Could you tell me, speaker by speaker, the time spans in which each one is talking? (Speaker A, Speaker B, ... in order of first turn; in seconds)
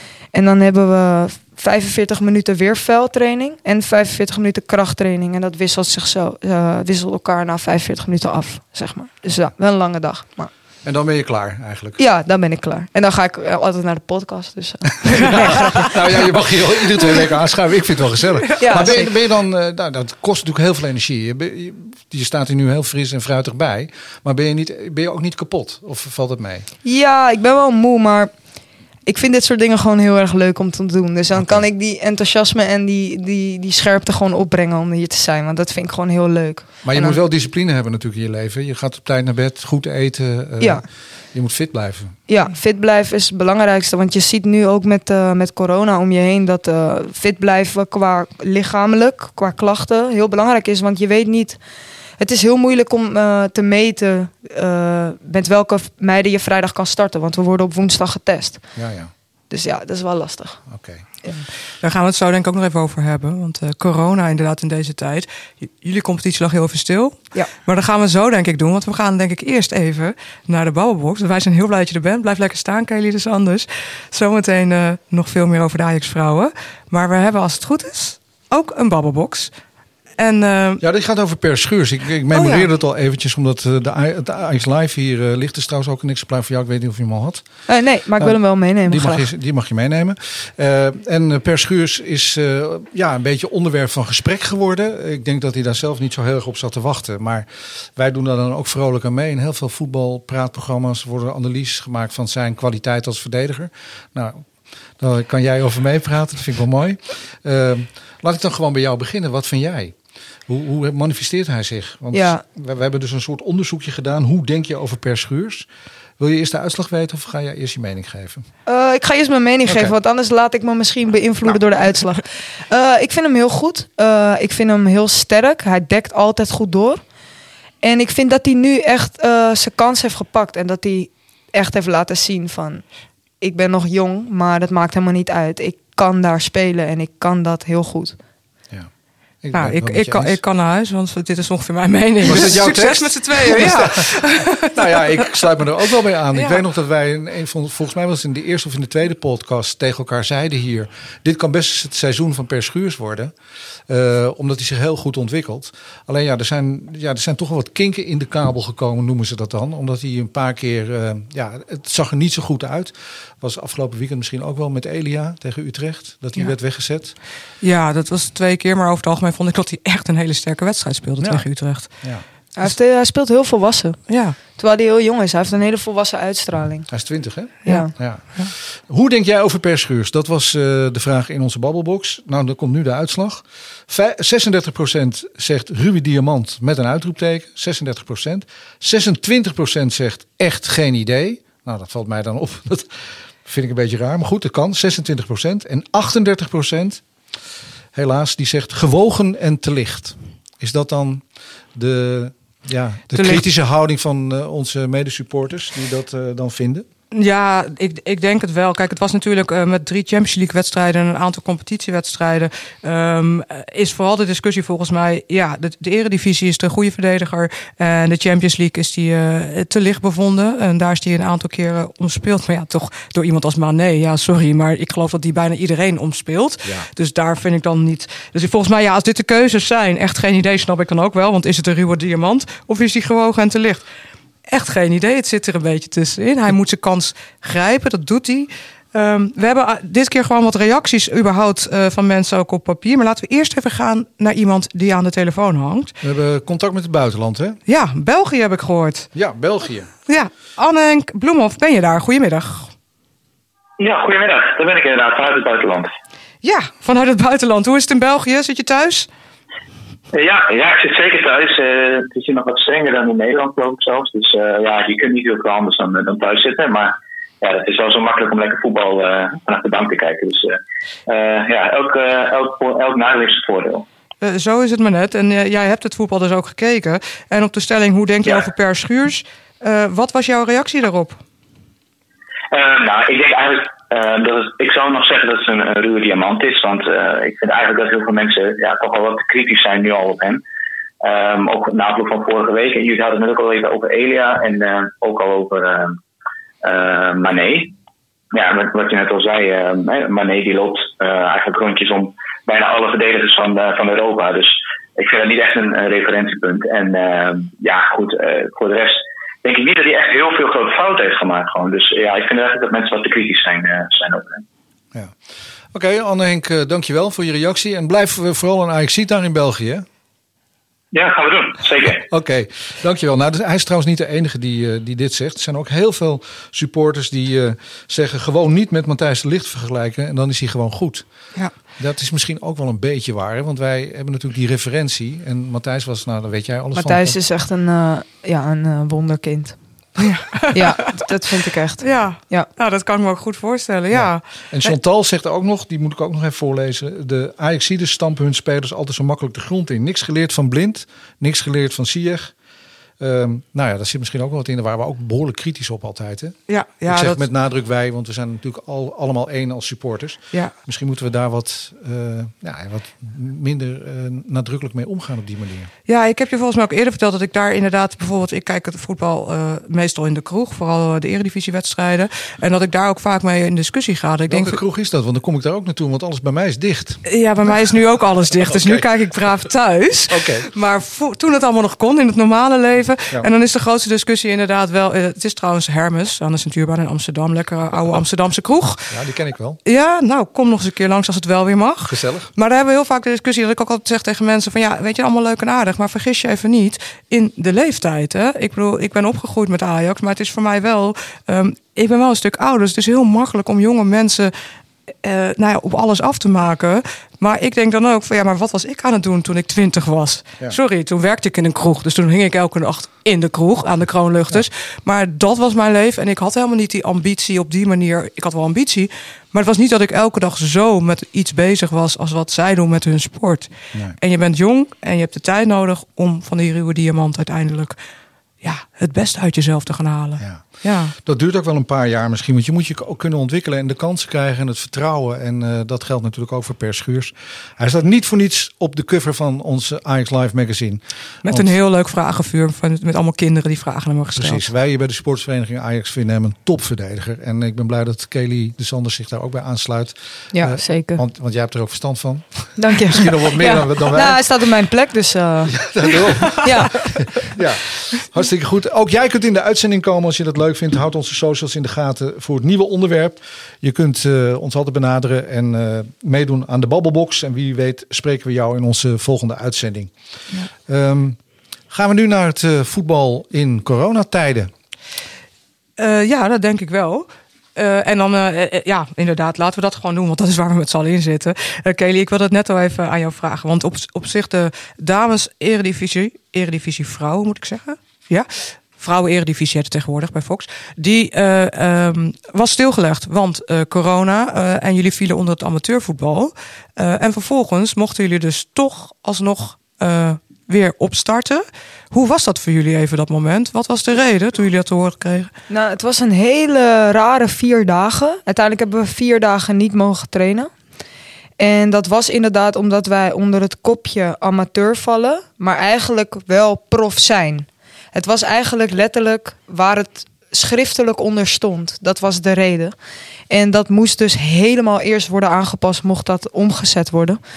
Speaker A: 0.3-10.5, 12.0-15.9, 18.6-19.1, 26.8-28.3, 29.1-37.2, 42.3-51.6, 52.2-58.7, 59.5-60.7, 87.7-89.2, 112.1-112.4, 118.7-127.0, 127.8-132.9, 133.4-138.2, 172.6-176.9, 177.6-177.9, 336.7-339.6, 340.5-342.5, 450.3-451.0, 452.6-455.6, 456.4-456.9, 505.5-510.5, 511.4-522.8, 523.3-527.2
Speaker B: 10.8-12.0, 15.1-26.7, 31.3-31.6, 36.8-42.1, 58.8-59.1, 60.7-61.0, 80.8-87.6, 88.2-115.7, 116.2-118.5, 119.6-119.9, 139.4-140.4, 142.2-153.3, 153.9-167.1, 171.2-172.2, 176.9-197.0, 197.9-206.9, 246.0-247.6, 249.1-249.9, 315.7-319.8, 322.1-337.1, 343.9-352.3, 353.0-365.7, 374.3-377.8, 378.3-378.9, 380.1-380.5, 387.7-388.0, 388.9-389.6, 391.8-392.3, 430.2-441.5, 444.1-454.2, 455.4-469.9, 470.6-474.5
Speaker C: 61.8-79.6, 80.2-80.8, 82.3-82.7, 139.5-145.4, 146.3-146.6, 167.6-172.1, 174.1-174.4, 177.7-178.5, 203.1-203.4, 207.1-233.8, 234.4-245.9, 247.7-249.1, 250.1-252.7, 256.4-259.1, 274.2-281.2, 340.0-340.8, 341.8-344.7, 356.5-357.2, 365.9-374.6, 377.0-389.0, 389.6-404.3, 405.0-427.8, 428.4-430.9, 441.2-444.5, 475.8-505.3
Speaker D: 253.8-255.9, 260.1-273.9, 282.5-290.4, 291.0-296.0, 296.6-297.7, 298.3-314.4, 320.9-322.1